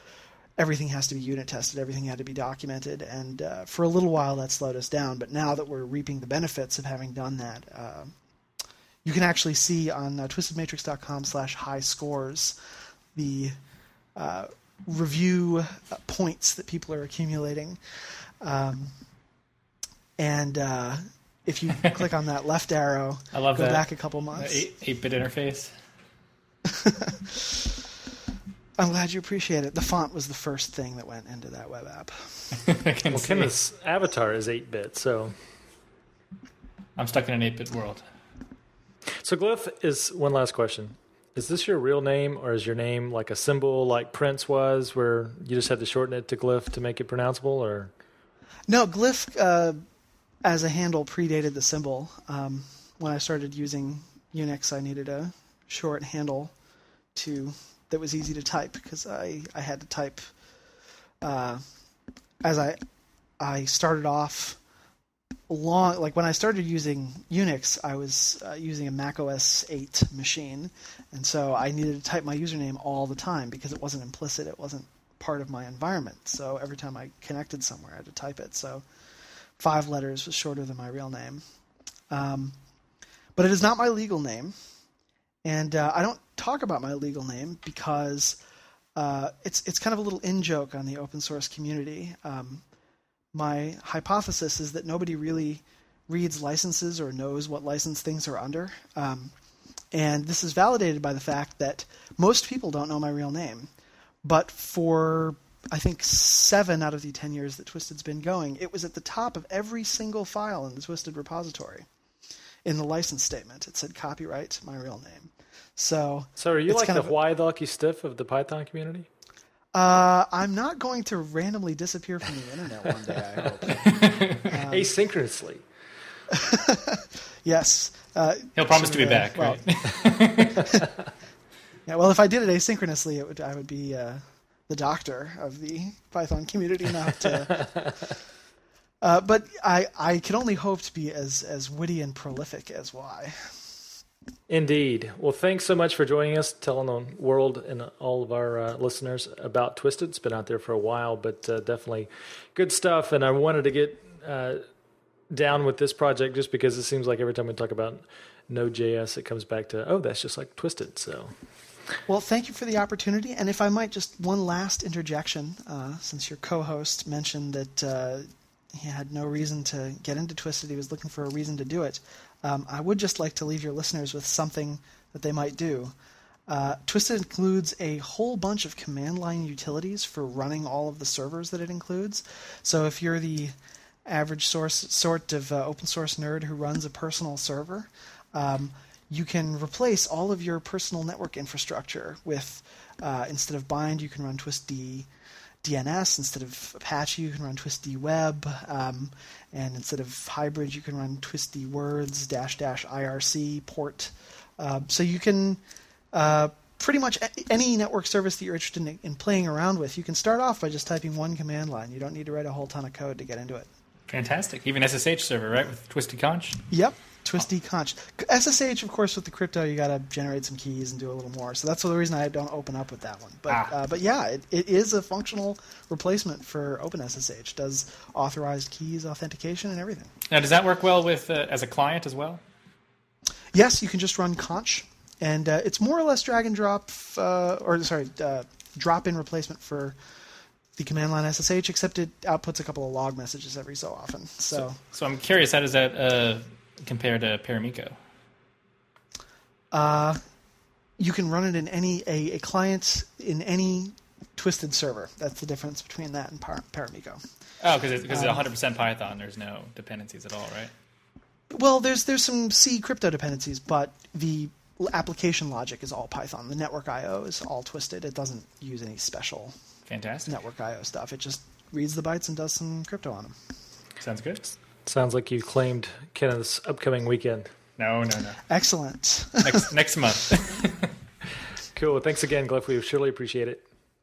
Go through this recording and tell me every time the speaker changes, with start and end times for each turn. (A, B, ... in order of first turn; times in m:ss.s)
0:00.6-0:08.2 A
0:09.0-0:12.6 A
0:13.2-0:13.6 A
0:14.2-0:17.8 A
0:18.4-0:18.9 A
0:20.2-0:24.6 A
0:23.3-0:25.7 B
0:26.7-0:27.7 A
0:28.8-0:32.6 A
0:32.6-0:33.5 B
0:33.1-0:35.4 C
0:37.0-0:38.0 B
0:39.2-0:47.9 C
0:48.7-0:49.8 A
0:50.4-0:56.5 A
0:57.2-1:00.2 A
1:01.2-1:01.6 A
1:02.4-1:02.8 A
1:03.4-1:04.6 A
1:05.5-1:18.8 A
1:19.6-1:21.4 A
1:22.1-1:22.6 A
1:23.4-1:24.5 A
1:25.4-1:28.4 A
1:29.0-1:32.6 A
1:33.3-1:39.3 A
1:39.9-1:43.7 A
1:44.2-1:51.9 A
1:52.6-1:57.1 A
1:56.4-1:59.1 C
1:59.7-2:04.9 A
2:03.8-2:04.4 B
2:04.6-2:05.6 C
2:06.3-2:09.6 A
2:08.6-2:10.7 B
2:10.6-2:10.8 A
2:11.9-2:17.8 A
2:19.0-2:23.6 A
2:24.5-2:34.6 C
2:35.3-2:41.3 C
2:42.1-2:56.0 A
2:56.5-3:03.6 A
3:04.1-3:15.1 A
3:15.6-3:25.6 A
3:26.1-3:33.7 A
3:34.1-3:36.7 B
3:36.7-3:50.1 A
3:50.3-3:52.4 B
3:53.5-4:00.0 A
4:00.8-4:04.8 A
4:04.6-4:08.0 B
4:09.7-4:10.2 A
4:11.0-4:17.2 A
4:17.6-4:20.7 B
4:18.1-4:18.5 A
4:21.5-4:29.5 A
4:29.9-4:30.4 B
4:30.3-4:33.4 A
4:34.0-4:34.6 B
4:34.9-4:37.5 C
4:37.8-4:38.4 B
4:38.5-4:39.7 A
4:39.4-4:40.9 B
4:41.7-4:43.6 C